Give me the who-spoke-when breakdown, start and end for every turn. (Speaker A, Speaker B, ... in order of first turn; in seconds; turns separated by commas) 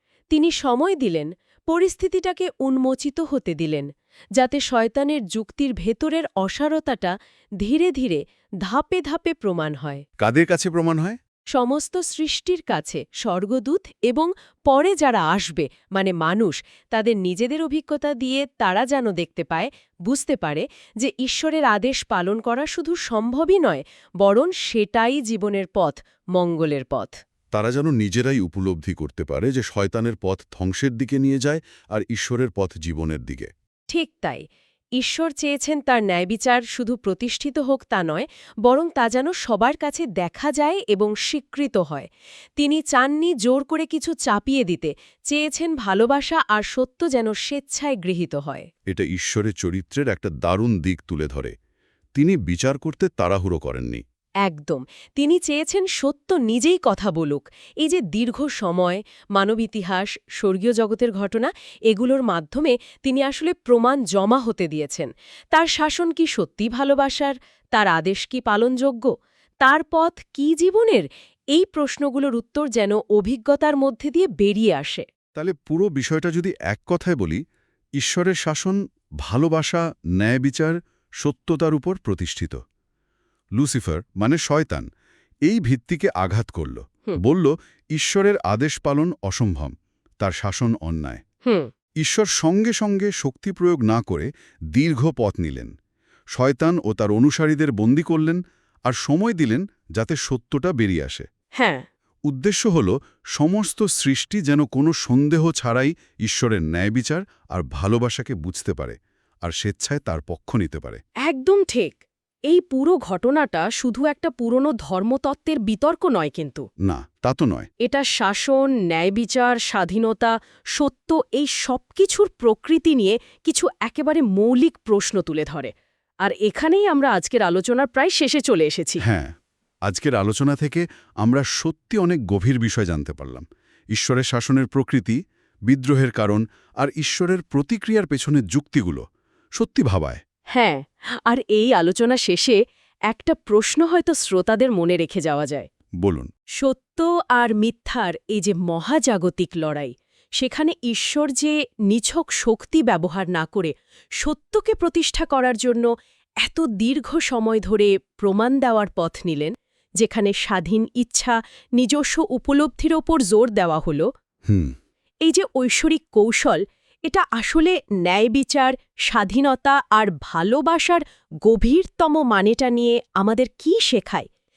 Speaker A: 0.3-10.0, Speaker B: 10.2-11.2, Speaker A: 11.5-27.2, Speaker B: 27.5-33.5, Speaker A: 33.9-34.5, Speaker A: 35.0-48.7, Speaker B: 48.9-51.5, Speaker B: 52.1-54.0, Speaker A: 54.4-69.1, Speaker A: 69.6-75.0, Speaker B: 75.3-77.4, Speaker B: 78.0-82.6, Speaker B: 83.6-84.9, Speaker B: 85.5-91.2, Speaker B: 92.0-95.7, Speaker B: 96.4-101.3, Speaker A: 101.6-101.8, Speaker B: 102.3-111.0, Speaker A: 111.2-112.0, Speaker A: 112.5-116.7, Speaker B: 116.8-117.7, Speaker A: 117.8-125.7, Speaker A: 126.2-129.0, Speaker B: 129.0-129.3, Speaker B: 129.9-139.1, Speaker B: 139.6-140.2, Speaker A: 140.5-145.7, Speaker B: 146.0-146.3, Speaker A: 146.6-155.9, Speaker A: 156.4-164.1, Speaker B: 164.5-164.8, Speaker A: 165.2-174.3